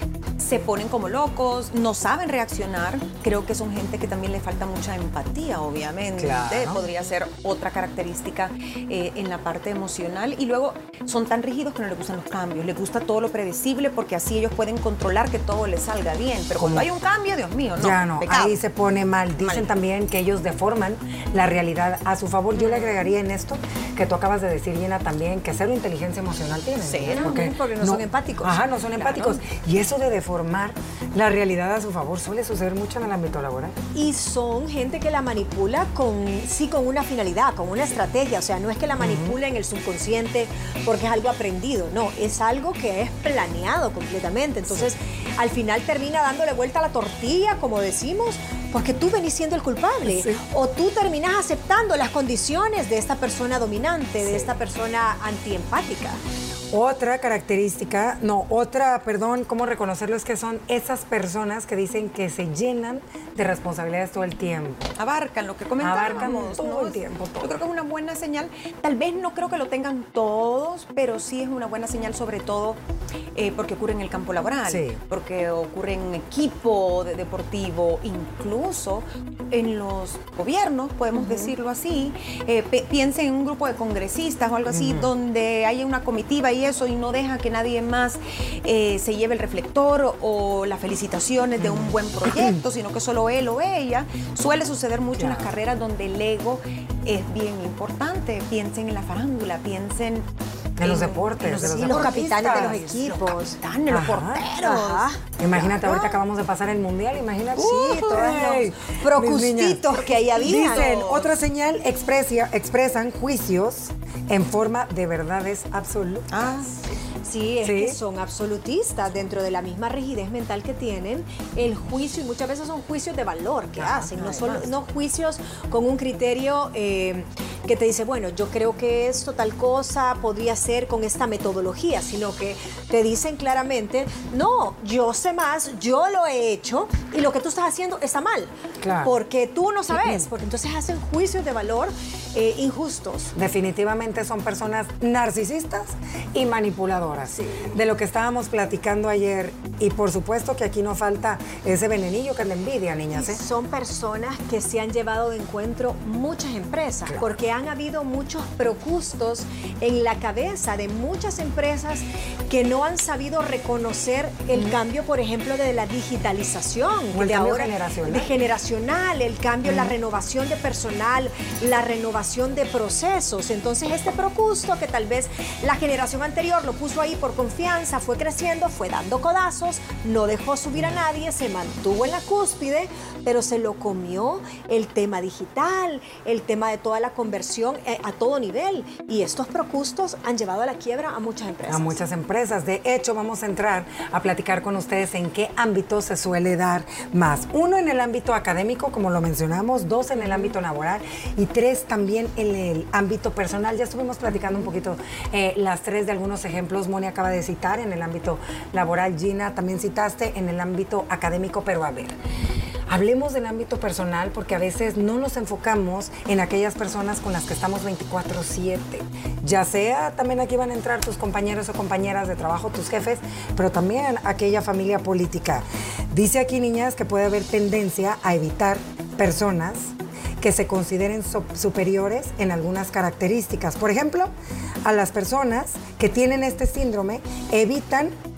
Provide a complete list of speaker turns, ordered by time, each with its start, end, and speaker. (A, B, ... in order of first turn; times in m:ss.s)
0:00.4-0:18.6 A
0:06.2-0:06.8 B
0:16.6-0:16.9 B
0:17.8-0:33.8 B
0:19.4-0:19.7 A
0:22.6-0:22.9 A
0:26.8-0:27.4 A
0:27.1-0:29.4 C
0:33.9-0:56.2 C
0:39.0-0:39.4 B
0:50.0-0:50.4 B
0:54.2-0:54.5 B
0:56.7-1:04.9 B
1:05.0-1:12.8 A
1:05.8-1:07.5 B
1:13.3-1:40.2 A
1:14.7-1:15.0 B
1:24.7-1:25.1 B
1:31.6-1:32.6 B
1:35.2-1:35.5 B
1:40.8-1:42.8 B
1:40.8-1:46.1 A
1:41.5-1:43.6 C
1:43.9-1:44.4 B
1:44.6-1:45.2 C
1:45.4-1:56.3 B
1:47.6-1:48.5 A
1:47.6-1:50.9 C
1:50.1-1:51.3 A
1:56.3-1:56.7 A
1:57.2-2:18.5 C
1:57.6-1:58.0 B
2:03.8-2:04.6 B
2:04.2-2:04.5 A
2:18.8-2:19.1 B
2:19.0-2:23.3 C
2:19.9-2:20.3 B
2:23.3-2:33.4 B
2:33.1-3:12.0 C
2:37.1-2:37.4 B
2:47.1-2:48.3 B
3:11.7-3:32.2 B
3:32.9-3:54.3 B
3:54.8-3:58.1 B